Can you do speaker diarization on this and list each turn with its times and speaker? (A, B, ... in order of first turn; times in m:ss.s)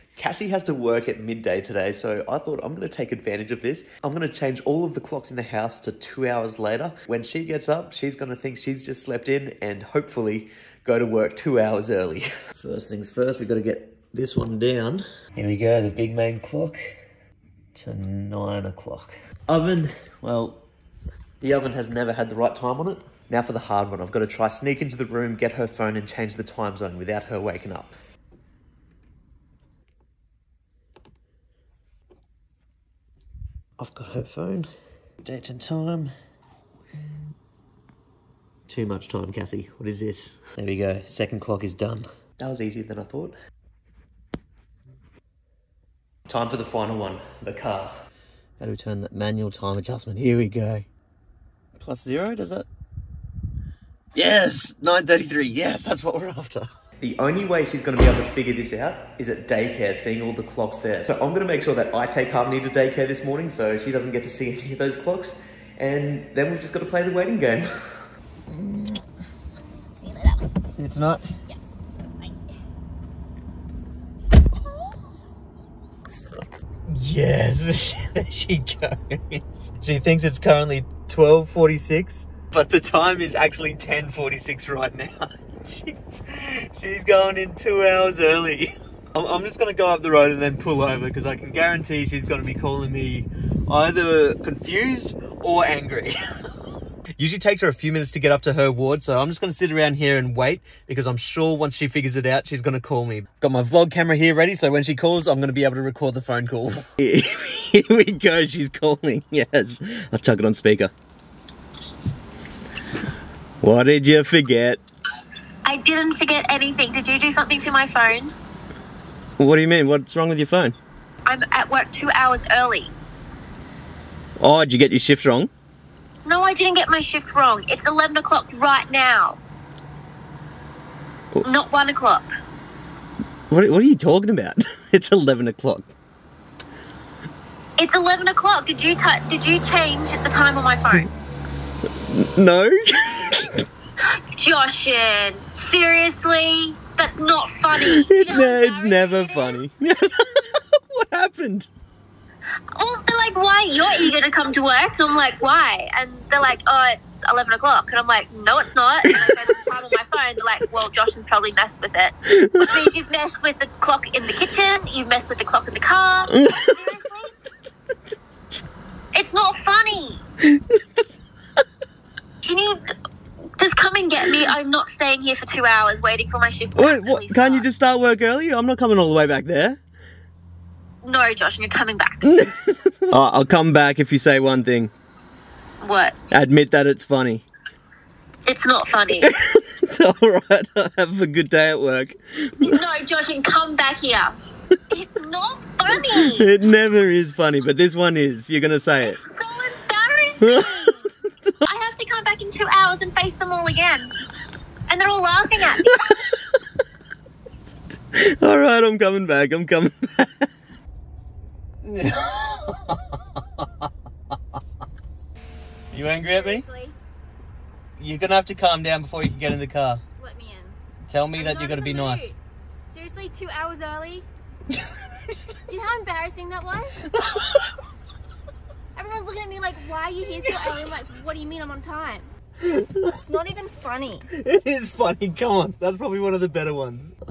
0:00.2-0:16.8 A
0:17.8-0:20.6 A
0:21.4-0:27.9 A
0:33.8-0:34.7 A
0:35.2-0:36.1 A
0:38.7-0:43.4 A
0:46.3-0:47.9 A
0:48.6-0:50.9 A
0:51.8-0:52.7 A
0:54.2-1:07.8 A
1:08.6-1:09.0 A
1:09.7-1:10.4 B
1:10.7-1:11.3 A
1:16.9-1:36.2 A
1:37.2-1:50.9 A
1:53.6-1:54.8 A
1:55.7-1:58.3 C
1:59.4-2:00.8 A
2:01.3-2:02.9 C
2:04.4-2:05.5 A
2:06.2-2:09.4 C
2:11.4-2:12.3 C
2:13.5-2:15.9 A
2:17.8-2:21.1 C
2:22.0-2:23.6 A
2:24.4-2:29.6 C
2:27.8-2:31.7 A
2:32.8-2:47.4 C
2:42.3-2:42.7 A
2:46.3-2:46.8 A
2:49.1-2:50.2 C
2:52.4-2:52.8 C
2:53.6-2:57.7 C
2:56.8-2:59.8 A
3:01.0-3:02.5 C
3:02.2-3:04.9 A
3:05.8-3:06.2 C
3:06.3-3:07.5 A
3:08.5-3:09.3 C
3:09.2-3:12.8 A
3:12.6-3:14.4 C
3:14.9-3:16.5 C
3:15.9-3:19.2 A
3:19.0-3:21.1 C
3:20.4-3:21.6 A
3:21.6-3:24.1 C
3:24.9-3:26.0 C
3:28.1-3:30.5 A
3:31.9-3:33.6 A
3:35.9-3:36.7 A
3:36.1-3:37.0 B
3:38.0-3:40.0 A
3:40.2-3:40.8 B
3:41.1-3:42.3 A
3:41.3-3:42.4 B
3:42.9-3:44.3 B
3:44.7-3:45.0 A
3:45.7-3:47.0 B
3:47.1-3:47.6 A
3:49.0-3:52.3 B
3:50.4-3:50.9 A
3:52.6-3:53.2 A
3:53.2-3:54.3 B
3:54.3-3:57.2 A